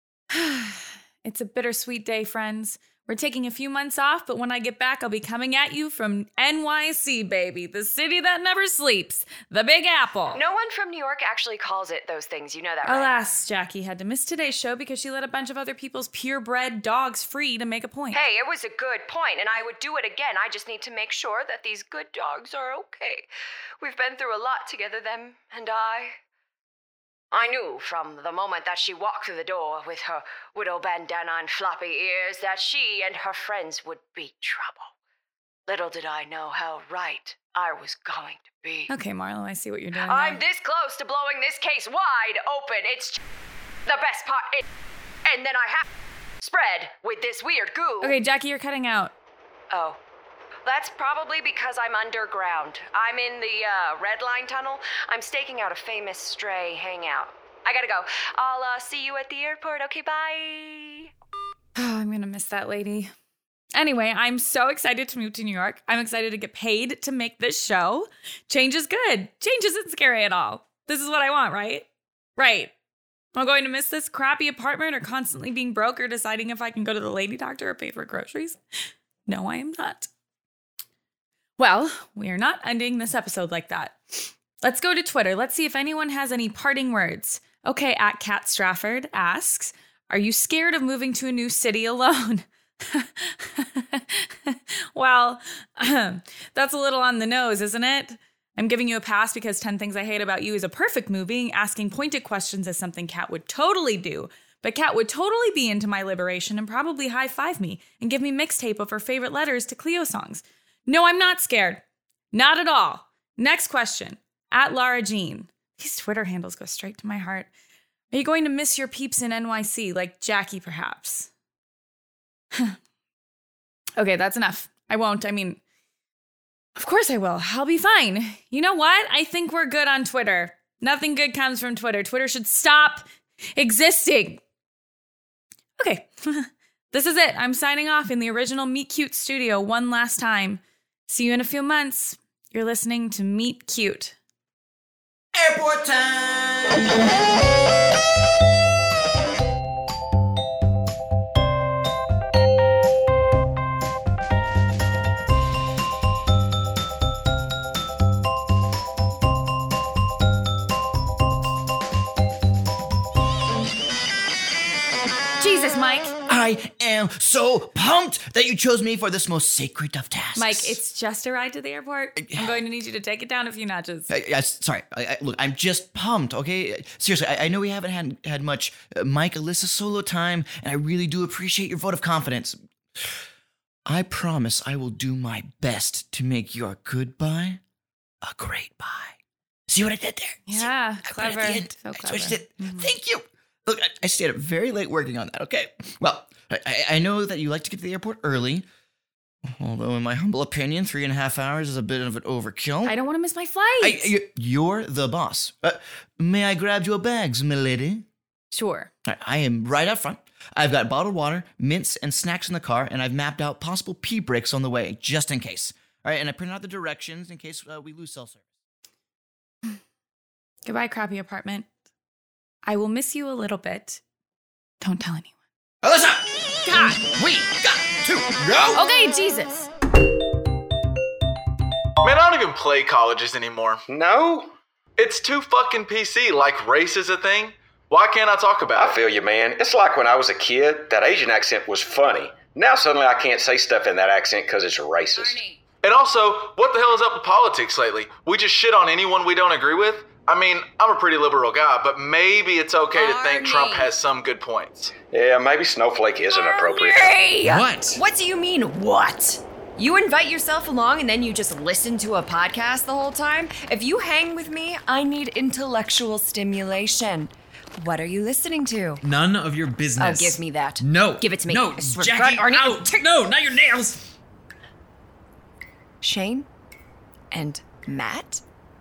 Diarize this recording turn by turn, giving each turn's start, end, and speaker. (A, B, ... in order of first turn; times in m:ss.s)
0:00.3-0:10.4 A
0:10.3-0:13.3 B
0:12.8-0:18.2 A
0:18.1-0:23.3 B
0:23.8-0:26.1 B
0:27.3-0:34.9 B
0:35.7-0:38.9 B
0:38.9-0:40.4 A
0:40.0-0:43.2 B
0:43.8-0:44.6 B
0:45.2-0:45.8 B
0:46.4-0:48.2 B
0:48.0-0:49.1 A
0:49.7-0:50.0 B
0:50.6-1:01.1 B
1:01.8-1:03.1 A
1:03.7-1:11.8 A
1:12.4-1:12.7 A
1:13.3-1:18.6 A
1:19.2-1:20.1 A
1:21.6-1:57.5 A
1:58.1-2:01.3 A
2:04.0-2:05.6 A
2:06.8-2:14.4 A
2:15.8-2:24.2 A
2:25.3-2:27.1 C
2:45.4-2:46.1 A
2:46.3-2:50.8 C
2:50.3-2:54.1 A
2:52.2-2:52.6 C
2:54.1-3:03.2 C
3:03.8-3:07.6 C
3:08.2-3:09.2 C
3:09.7-3:18.6 C
3:10.5-3:12.9 A
3:19.4-3:22.9 C
3:22.8-3:24.1 A
3:23.8-3:28.0 C
3:28.5-3:28.9 A
3:29.0-3:38.4 C
3:40.6-3:41.7 A
3:42.6-3:44.0 A
3:44.8-3:45.3 A
3:45.8-3:48.9 C
3:48.7-3:49.7 A
3:52.0-3:53.8 D
3:53.9-3:54.5 E
3:55.0-3:59.0 D
3:58.7-4:05.4 E
4:05.1-4:05.6 B
4:05.8-4:14.9 D
4:12.9-4:13.9 B
4:15.1-4:17.2 E
4:16.3-4:29.0 B
4:17.4-4:18.0 F
4:29.0-4:34.0 F
4:30.0-4:33.0 B
4:36.0-4:36.5 B
4:37.3-4:38.4 B